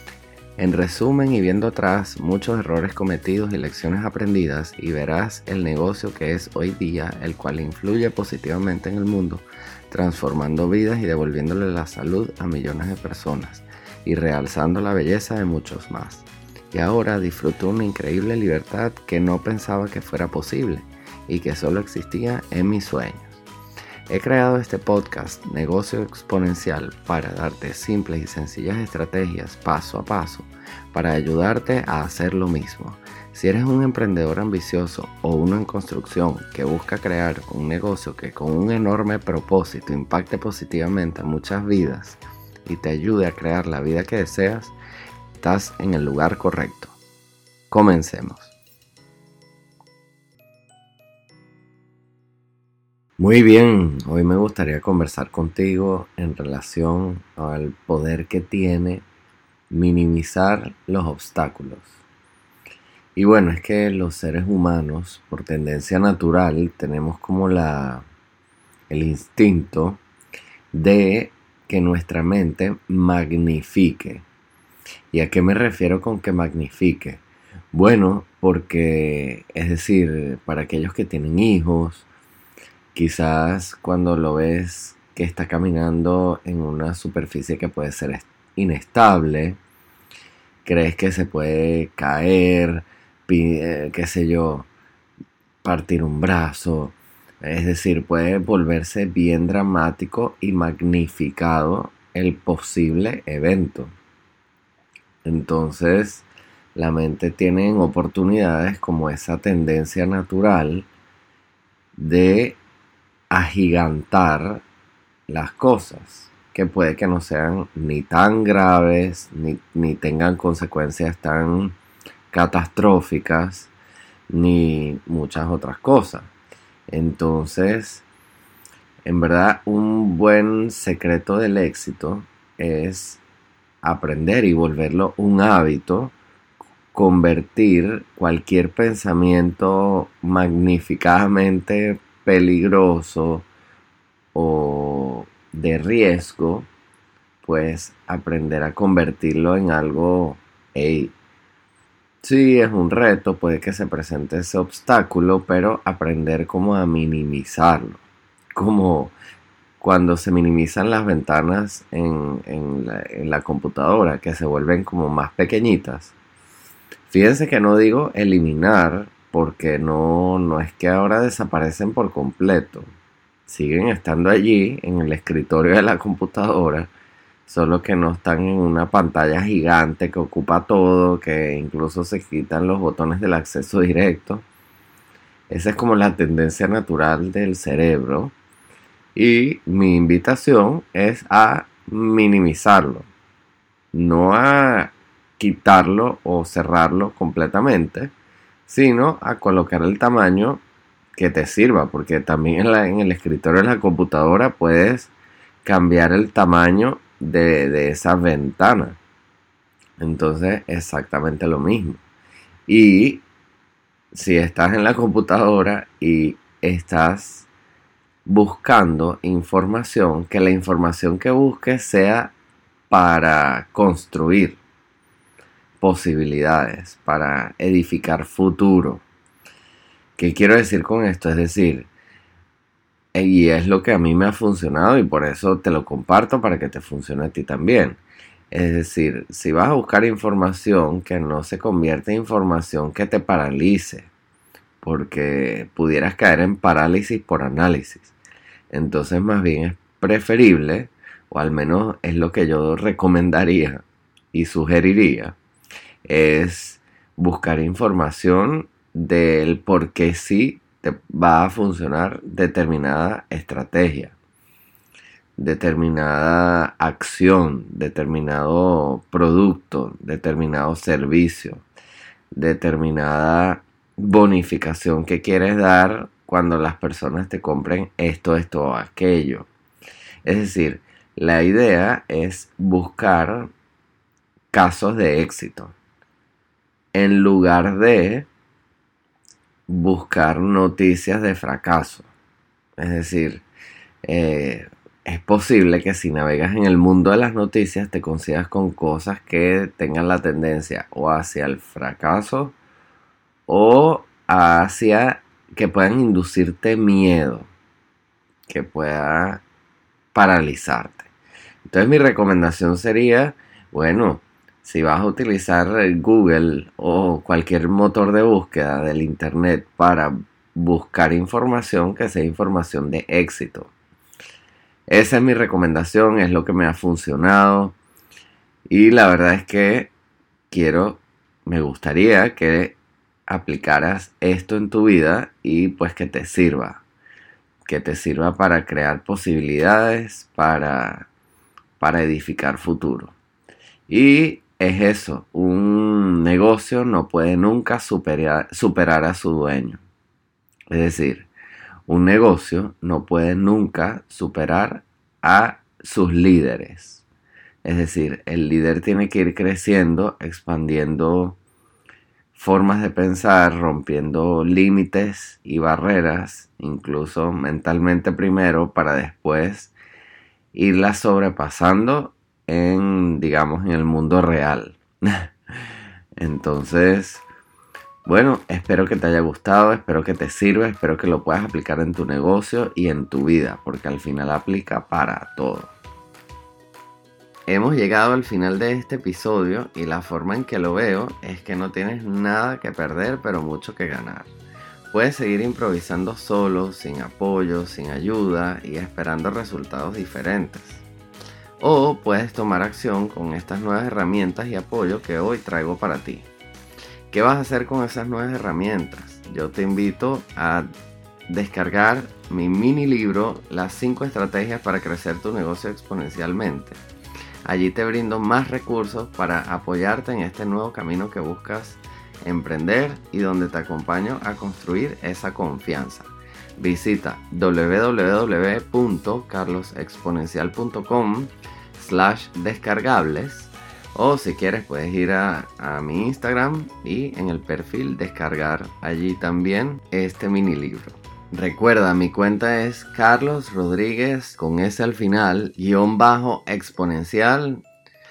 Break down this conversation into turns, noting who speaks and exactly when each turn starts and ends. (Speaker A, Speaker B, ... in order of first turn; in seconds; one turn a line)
Speaker A: 0.6-23.4
Speaker A: 24.1-44.7
Speaker A: 45.4-47.0
Speaker A: 47.7-48.5
Speaker A: 53.2-59.0
Speaker A: 59.7-62.0
Speaker A: 63.1-68.0
Speaker A: 68.9-70.0
Speaker A: 70.7-74.2
Speaker A: 75.1-77.2
Speaker A: 77.7-82.0
Speaker A: 82.9-89.6
Speaker A: 90.6-94.7
Speaker A: 95.6-103.9
Speaker A: 105.2-110.9
Speaker A: 112.0-112.6
Speaker A: 113.3-114.6
Speaker A: 115.3-121.8
Speaker A: 122.3-123.7
Speaker A: 124.3-126.3
Speaker A: 126.9-128.0
Speaker A: 129.0-133.2
Speaker A: 133.8-136.1
Speaker A: 136.9-143.5
Speaker A: 144.3-146.7
Speaker A: 147.4-151.1
Speaker A: 152.2-158.0
Speaker A: 158.5-159.1
Speaker A: 159.8-166.1
Speaker A: 167.1-172.9
Speaker A: 173.5-176.9
Speaker A: 177.4-184.4
Speaker A: 185.5-188.3
Speaker A: 189.1-193.1
Speaker A: 193.9-198.1
Speaker A: 198.7-200.6
Speaker A: 201.2-205.1
Speaker A: 205.6-209.0
Speaker A: 210.0-212.0
Speaker A: 212.7-213.2
Speaker A: 214.1-217.5
Speaker A: 218.2-222.3
Speaker A: 222.9-224.6
Speaker A: 225.8-229.0
Speaker A: 230.2-231.9
Speaker A: 233.1-244.1
Speaker A: 244.8-248.1
Speaker A: 248.7-255.3
Speaker A: 256.0-264.1
Speaker A: 265.4-271.6
Speaker A: 272.3-279.5
Speaker A: 280.2-283.5
Speaker A: 284.5-285.7
Speaker A: 286.9-288.3
Speaker A: 289.7-292.1
Speaker A: 292.8-293.4
Speaker A: 294.0-302.5
Speaker A: 303.5-307.5
Speaker A: 308.5-309.4
Speaker A: 310.1-311.1
Speaker A: 311.6-323.7
Speaker A: 324.9-327.8
Speaker A: 328.7-329.9
Speaker A: 330.5-332.8
Speaker A: 333.3-336.8
Speaker A: 337.6-341.1
Speaker A: 341.8-343.1
Speaker A: 343.9-349.8
Speaker A: 350.7-351.3
Speaker A: 351.9-357.0
Speaker A: 357.6-361.4
Speaker A: 362.3-369.7
Speaker A: 370.5-375.3
Speaker A: 376.2-377.2
Speaker A: 378.0-385.7
Speaker A: 387.5-394.3
Speaker A: 394.9-400.8
Speaker A: 401.6-406.3
Speaker A: 407.1-410.7
Speaker A: 411.3-416.8
Speaker A: 417.4-447.6